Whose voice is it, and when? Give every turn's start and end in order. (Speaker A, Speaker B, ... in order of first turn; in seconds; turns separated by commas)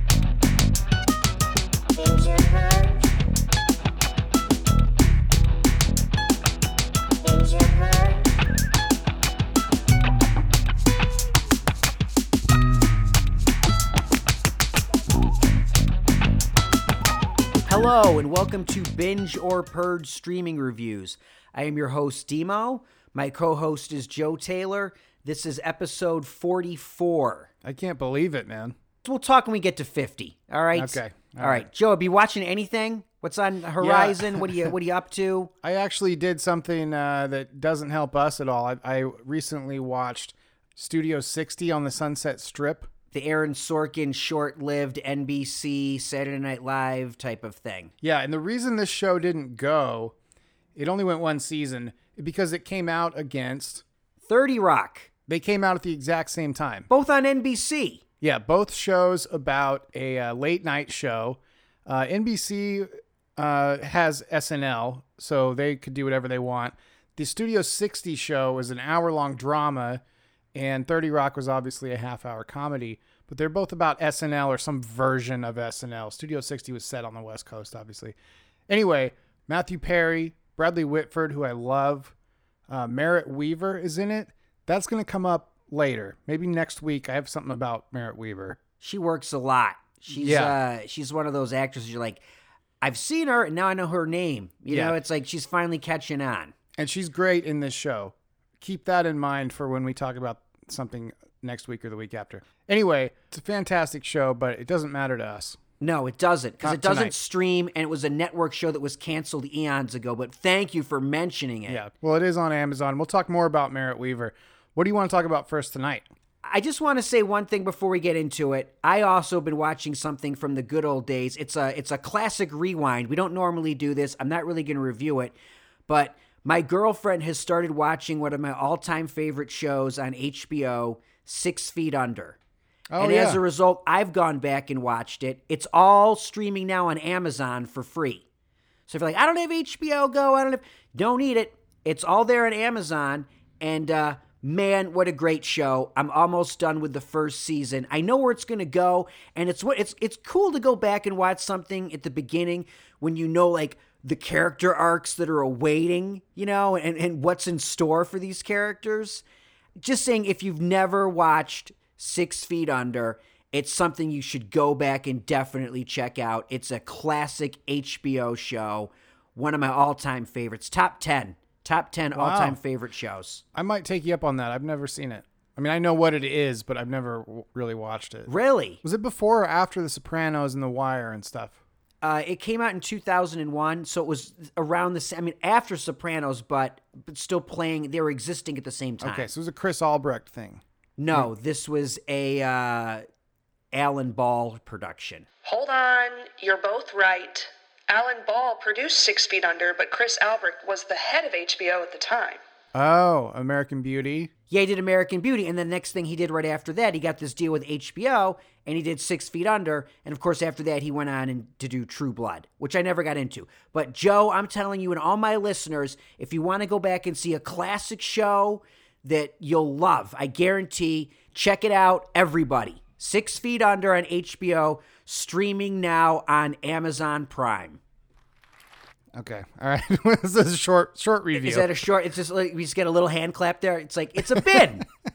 Speaker A: 17.7-27.5, Speaker B: 27.6-28.8, Speaker A: 29.0-35.5, Speaker B: 30.7-31.7, Speaker B: 33.8-34.7, Speaker B: 35.6-42.9, Speaker A: 43.1-47.9, Speaker B: 48.0-50.1, Speaker B: 50.8-53.8, Speaker A: 54.3-55.1, Speaker B: 55.3-56.9, Speaker A: 56.9-58.0, Speaker B: 58.2-70.0, Speaker B: 70.5-78.2, Speaker B: 78.7-82.1, Speaker B: 82.7-88.6, Speaker A: 88.8-92.2, Speaker B: 90.2-90.6, Speaker A: 92.8-96.5, Speaker B: 94.7-95.0, Speaker B: 96.8-105.6, Speaker A: 105.8-111.8, Speaker B: 106.6-107.1, Speaker B: 111.7-116.1, Speaker A: 116.4-125.3, Speaker A: 125.9-132.4, Speaker B: 132.9-133.4, Speaker A: 133.0-138.2, Speaker A: 138.9-159.2, Speaker A: 159.8-173.4, Speaker B: 172.2-172.6, Speaker B: 173.5-178.3, Speaker A: 178.3-178.8, Speaker B: 178.8-181.6, Speaker A: 182.0-189.3, Speaker B: 189.0-190.6, Speaker A: 191.0-193.0, Speaker A: 193.7-195.3, Speaker C: 195.4-202.4, Speaker B: 202.7-204.3, Speaker A: 204.5-227.8, Speaker B: 229.2-231.8, Speaker A: 231.4-234.8, Speaker B: 234.2-234.8